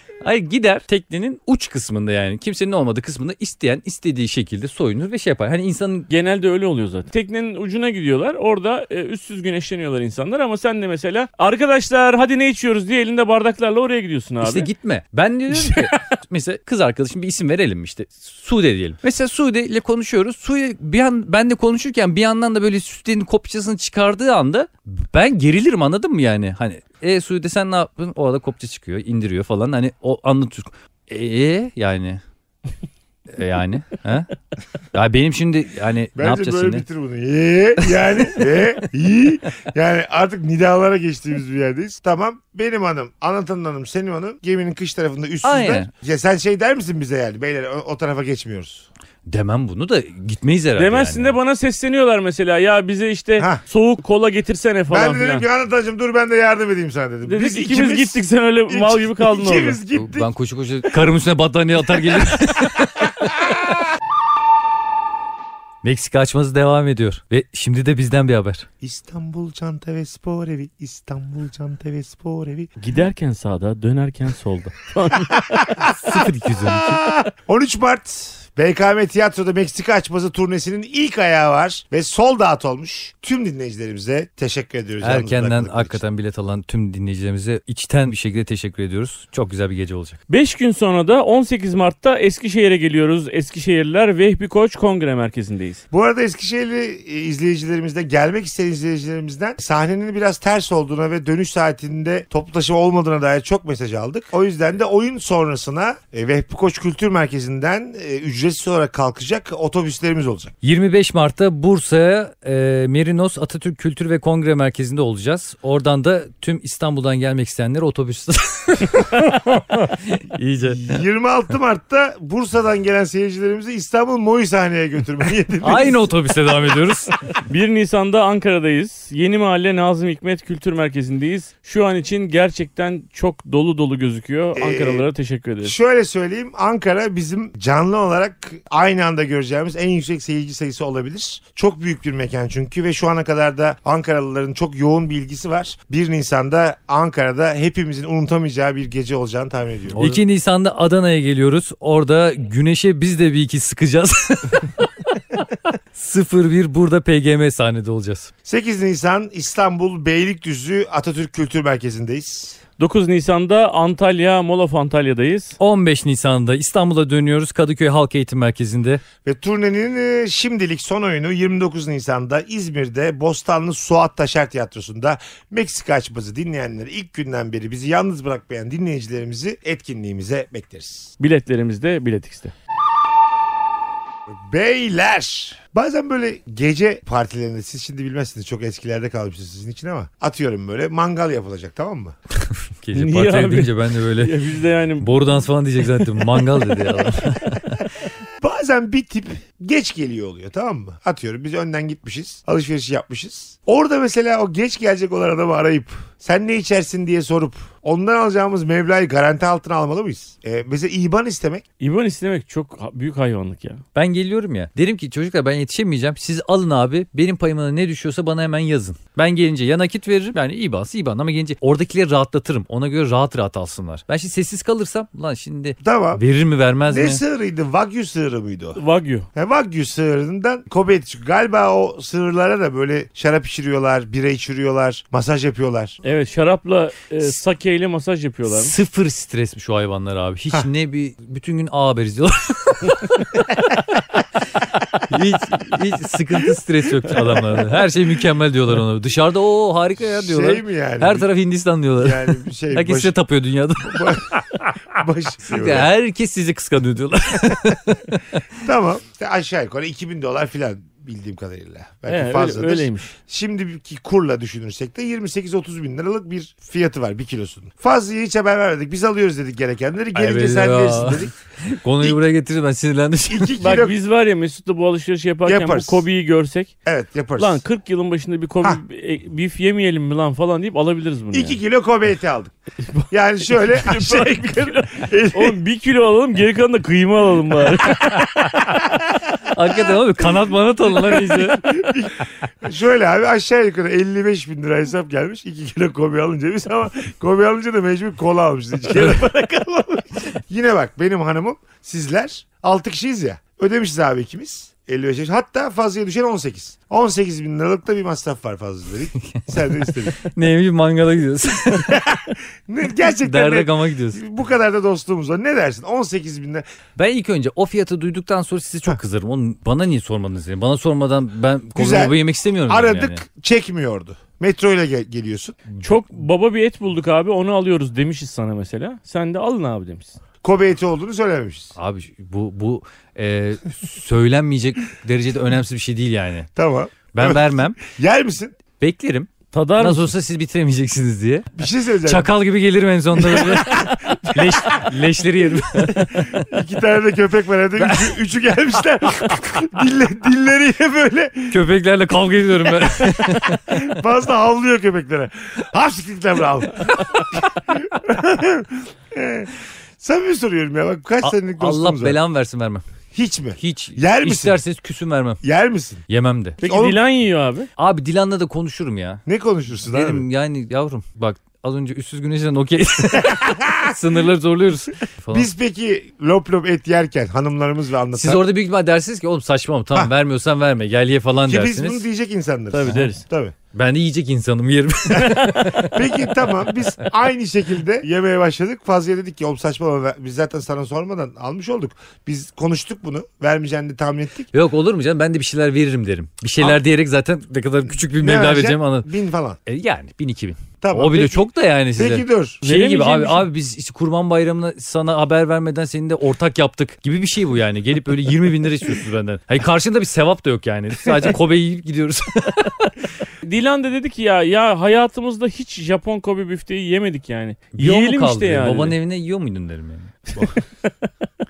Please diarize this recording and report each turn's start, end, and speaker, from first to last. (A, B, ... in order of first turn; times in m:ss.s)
0:00.2-0:06.1 A
0:06.1-0:14.7 B
0:14.4-0:32.2 A
0:33.3-0:34.3 A
0:34.9-0:36.8 A
0:36.2-0:48.9 C
0:45.4-0:45.9 A
0:49.3-0:51.4 A
0:50.8-0:55.4 B
0:54.9-1:00.3 C
0:57.2-0:59.8 B
0:59.9-1:03.3 A
1:05.8-1:08.7 A
1:08.8-1:12.7 C
1:12.8-1:15.6 B
1:15.5-1:26.0 C
1:15.8-1:17.1 A
1:25.0-1:30.2 A
1:30.3-1:35.8 B
1:35.9-1:50.5 C
1:50.6-2:01.0 A
2:00.7-2:06.1 C
2:05.6-2:07.2 A
2:07.4-2:15.7 B
2:14.6-2:15.1 C
2:15.6-2:30.2 C
2:29.9-2:38.3 A
2:38.4-2:42.6 C
2:42.8-2:45.6 B
2:45.6-2:49.0 A
2:49.2-3:01.1 C
3:01.2-3:02.5 B
3:04.3-3:12.1 C
3:12.4-3:14.4 A
3:12.9-3:15.2 B
3:15.0-3:17.6 A
3:18.4-3:31.6 C
3:31.8-3:33.8 B
3:33.9-3:47.2 A
3:45.8-3:46.2 C
3:46.9-3:48.8 C
3:48.8-3:49.3 B
3:49.3-3:56.0 C
3:56.0-3:58.7 B
3:58.5-4:03.6 A
4:04.6-4:14.2 A
4:10.0-4:11.3 C
4:12.0-4:13.1 C
4:13.8-4:15.9 C
4:15.4-4:18.4 A
4:18.6-4:31.3 C
4:22.1-4:23.1 B
4:30.1-4:33.7 A
4:33.3-4:33.9 C
4:33.6-4:36.7 B
4:35.4-4:36.0 C
4:36.8-4:37.6 C
4:37.4-4:41.6 B
4:41.3-4:42.5 C
4:42.9-4:48.2 B
4:43.1-4:45.6 C
4:48.6-4:48.9 C
4:49.4-4:51.7 A
4:51.1-5:10.2 C
5:09.3-5:09.6 A
5:10.2-5:12.0 A
5:11.8-5:16.6 C
5:13.2-5:14.2 A
5:17.0-5:23.2 A
5:21.8-5:25.6 C
5:25.8-5:30.2 B
5:30.4-5:31.7 C
5:31.8-5:36.5 A
5:36.6-5:38.6 C
5:37.1-5:37.8 A
5:38.8-5:41.5 A
5:39.5-5:40.1 B
5:41.6-5:42.3 C
5:42.0-5:46.4 A
5:43.1-5:45.0 C
5:45.7-5:51.6 C
5:47.8-5:48.2 A
5:51.5-5:53.9 A
5:52.7-6:02.2 C
6:01.2-6:02.8 A
6:03.1-6:04.6 C
6:03.6-6:05.4 A
6:05.4-6:06.0 C
6:06.1-6:06.6 A
6:06.6-6:07.0 C
6:06.6-6:07.7 B
6:07.8-6:09.2 A
6:09.2-6:10.2 C
6:09.9-6:15.5 A
6:13.2-6:13.9 C
6:15.3-6:18.4 C
6:18.1-6:22.0 A
6:21.4-6:23.5 C
6:22.7-6:23.2 B
6:22.8-6:23.1 A
6:23.7-6:26.4 A
6:25.1-6:34.5 C
6:34.5-6:39.1 A
6:38.2-6:39.6 C
6:39.6-6:53.0 A
6:40.8-6:42.6 C
6:42.6-6:43.5 B
6:53.4-6:59.0 B
6:57.7-7:00.1 A
7:00.4-7:01.1 B